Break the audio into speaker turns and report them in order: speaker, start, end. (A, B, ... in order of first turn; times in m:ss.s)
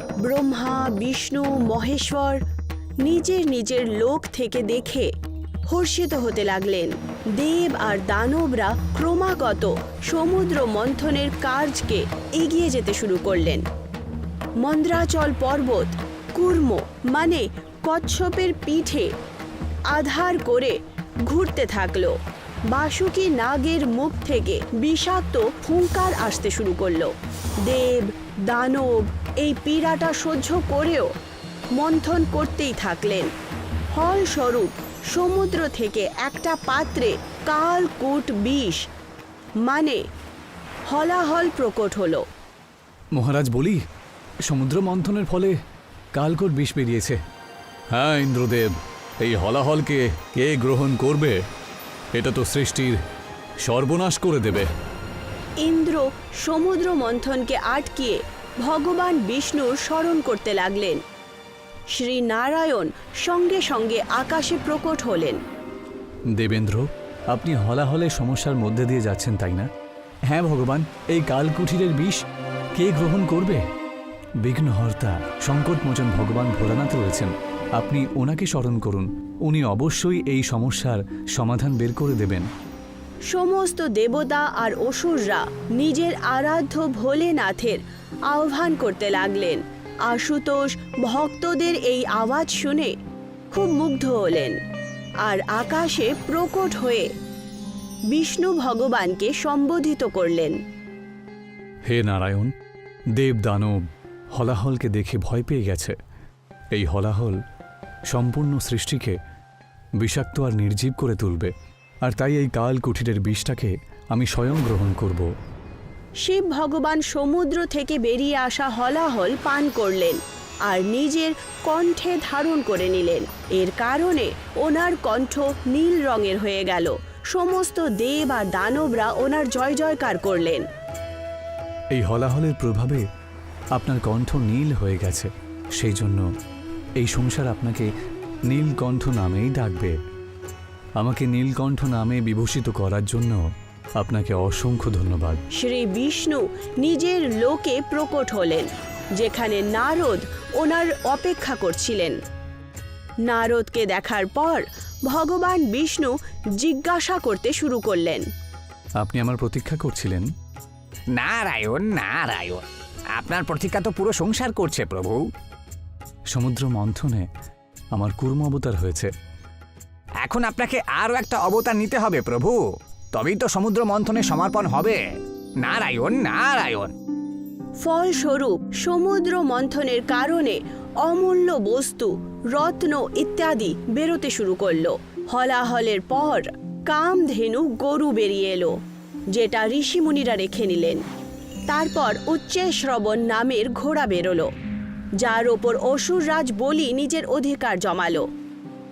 0:00.2-0:02.4 A
0:03.0-0:05.1 A
0:05.7-0:13.6 A
0:14.6-0:19.1 A
0:19.9-0:22.2 A
0:22.7-0:27.1 A
0:27.6-0:31.1 A
0:31.8-0:33.3 A
0:33.9-0:38.8 A
0:39.6-0:40.0 A
0:40.9-0:42.2 A
0:43.1-0:43.8 B
0:44.5-0:45.6 B
0:46.1-0:47.2 B
0:47.9-0:51.4 B
0:52.1-0:53.0 B
0:53.6-0:54.7 B
0:55.6-1:01.0 A
1:01.9-1:05.4 A
1:06.4-1:09.7 B
1:10.3-1:12.2 B
1:12.8-1:13.6 B
1:14.4-1:22.5 B
1:23.3-1:27.8 A
1:28.3-1:32.9 A
1:33.5-1:34.6 A
1:35.2-1:37.1 A
1:38.1-1:40.6 A
1:41.9-1:42.5 B
1:43.2-1:43.8 B
1:44.4-1:45.9 B
1:46.7-1:47.4 B
1:48.1-1:49.2 B
1:50.0-1:51.5 B
1:52.0-1:55.3 B
1:56.2-2:10.7 A
2:11.9-2:13.0 B
2:13.7-2:16.2 B
2:17.0-2:17.9 B
2:18.5-2:19.9 B
2:21.0-2:23.4 B
2:24.0-2:25.4 B
2:25.6-2:32.2 A
2:33.3-2:38.2 A
2:39.0-2:40.2 B
2:41.1-2:45.3 C
2:46.3-2:47.3 B
2:47.9-2:49.1 B
2:50.2-2:52.6 C
2:53.1-2:55.0 C
2:55.6-2:56.9 C
2:57.8-3:08.7 A
3:09.3-3:11.0 A
3:11.7-3:14.5 A
3:15.2-3:18.3 A